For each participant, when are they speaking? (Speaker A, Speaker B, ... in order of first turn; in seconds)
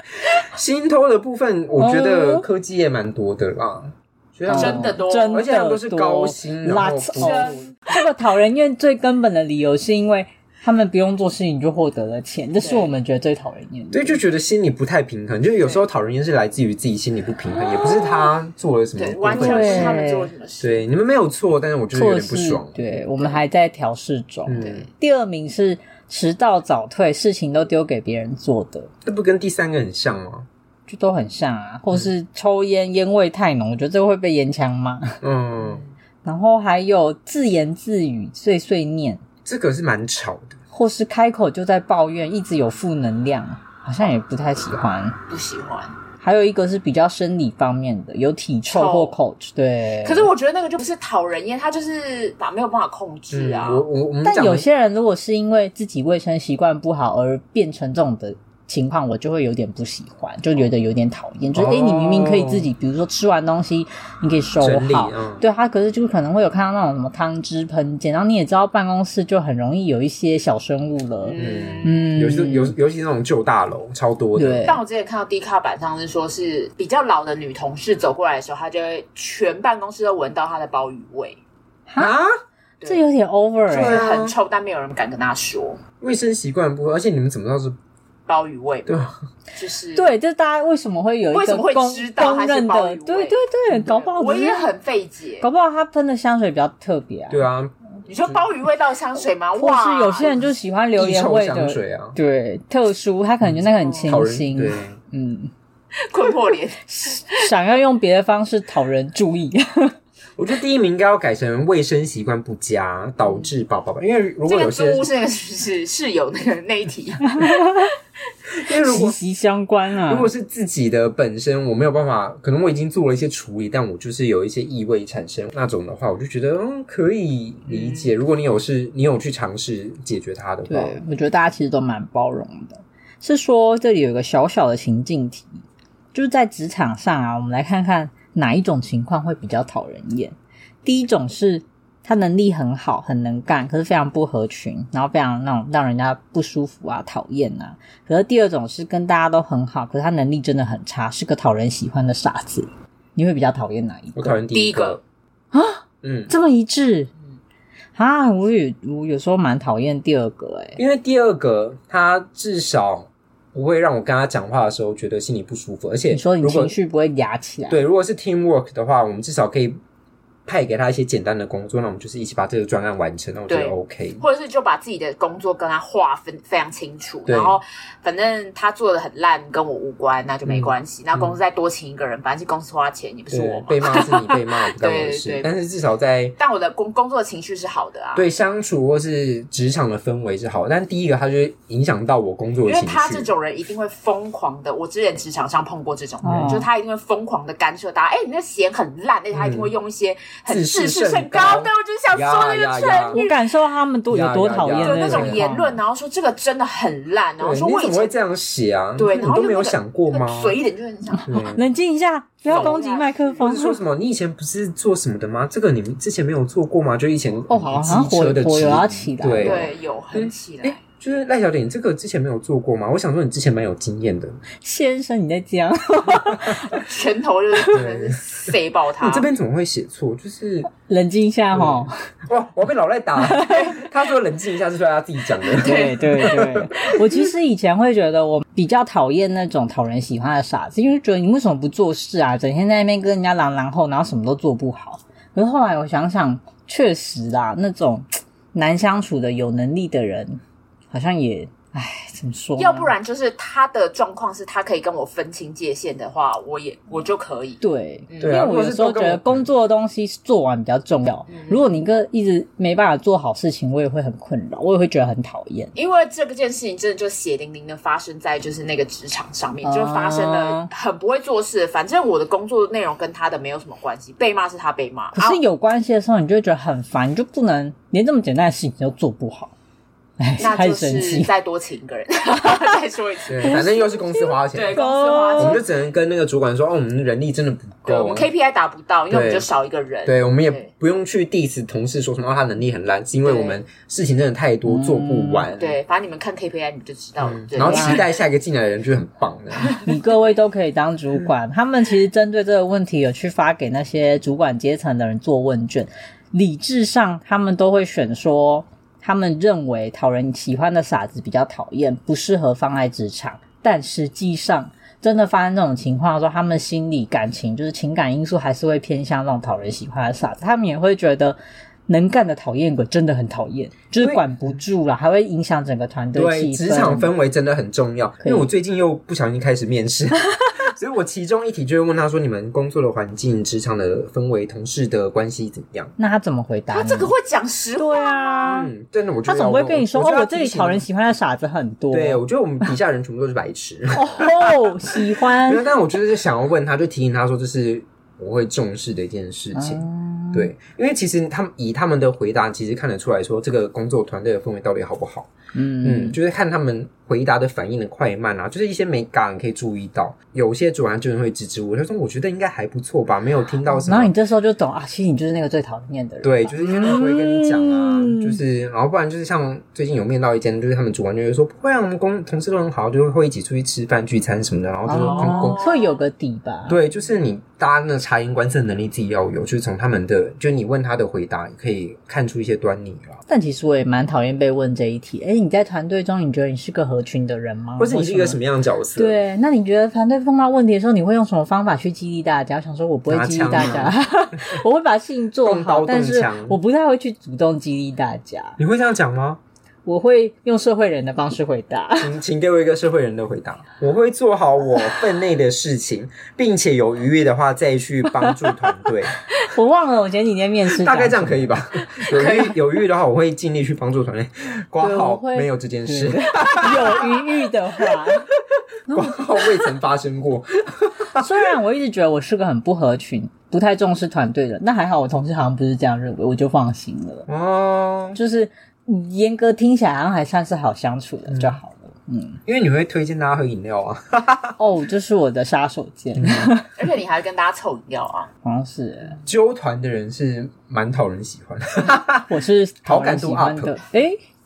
Speaker A: 0.3-7.7, 13.9-20.0, 20.6-23.4, 24.4-24.9, 29.0-30.5, 35.2-35.8, 39.4-40.6, 53.3-54.6, 61.5-62.7, 64.6-65.4, 71.4-74.7, 82.0-82.3, 83.7-84.3, 86.0-87.8, 88.8-89.1, 97.3-97.7, 101.0-102.2, 103.4-105.0, 110.4-115.1, 118.6-119.2, 120.1-131.0, 154.2-155.0, 156.0-156.3, 160.8-166.8, 167.7-169.8, 170.4-174.2, 177.3-177.6, 180.4-181.4, 183.3-186.4, 188.1-193.3, 199.3-199.7, 200.5-203.2, 204.1-205.4, 207.4-210.6, 211.3-211.6, 212.4-212.8, 213.4-224.4, 227.7-228.2, 229.0-230.7, 231.5-236.7, 258.2-259.4, 283.3-284.8, 285.4-288.3, 289.1-289.5, 290.0-295.8, 297.2-299.8, 324.0-324.3, 326.1-335.9, 338.4-340.9, 341.9-344.6, 345.4-349.8, 350.3-355.3, 355.8-364.1, 366.2-375.6, 376.7-383.2, 387.8-389.2, 393.1-394.6, 395.4-396.6, 398.6-399.4, 402.0-409.1, 410.7-417.3, 418.9-421.5, 427.3-428.2, 431.3-431.6, 432.5-434.6, 436.1-436.5, 439.2-442.3, 442.8-443.8
Speaker B: 1.7-2.5, 4.5-14.2, 19.4-20.3, 21.9-28.9, 30.9-35.2, 36.2-39.2, 40.7-45.2, 46.2-50.3, 54.2-72.7, 74.3-74.8, 81.9-82.1, 82.8-84.0, 90.0-94.7, 95.4-97.4, 99.6-105.5, 106.8-109.9, 117.3-117.9, 118.8-120.3, 130.7-154.4, 155.5-157.1, 157.9-160.8, 166.1-167.8, 196.2-196.7, 203.1-205.8, 211.1-213.8, 217.5-219.7, 224.6-226.8, 230.8-231.9, 233.2-233.7, 235.6-252.9, 257.6-265.7, 269.6-270.7, 275.1-279.5, 280.2-281.3, 284.7-285.6, 294.6-295.5, 297.6-298.0, 299.8-327.1, 328.2-328.5, 336.0-337.1, 337.8-338.7, 339.2-342.2, 343.9-345.6, 349.5-350.5, 355.5-356.2, 363.7-368.4, 374.9-376.8, 383.3-388.4, 388.9-398.6, 399.8-402.1, 409.4-412.5, 414.8-418.3, 418.9-419.6, 421.1-427.3, 428.1-432.4, 434.6-436.7, 438.4-439.2, 442.3-444.2
Speaker C: 4.5-5.4, 7.2-7.7, 12.6-12.9, 17.9-18.2, 19.0-20.8, 24.6-24.9, 35.6-35.9, 45.3-45.9, 48.7-49.1, 50.0-53.8, 71.2-72.0, 74.6-81.4, 83.7-85.8, 88.3-89.0, 89.5-90.1, 91.3-95.5, 98.0-100.5, 103.7-104.2, 106.1-107.4, 114.4-117.8, 127.7-128.1, 154.5-155.0, 173.5-185.5, 186.4-188.3, 192.6-203.4, 204.8-208.1, 209.0-211.4, 212.5-213.5, 219.4-220.8, 226.7-229.3, 235.5-236.2, 252.6-258.4, 261.3-261.6, 265.7-275.4, 280.4-285.7, 287.8-290.7, 293.2-293.6, 295.6-298.1, 336.7-338.5, 375.1-376.0, 412.2-412.5, 436.8-438.3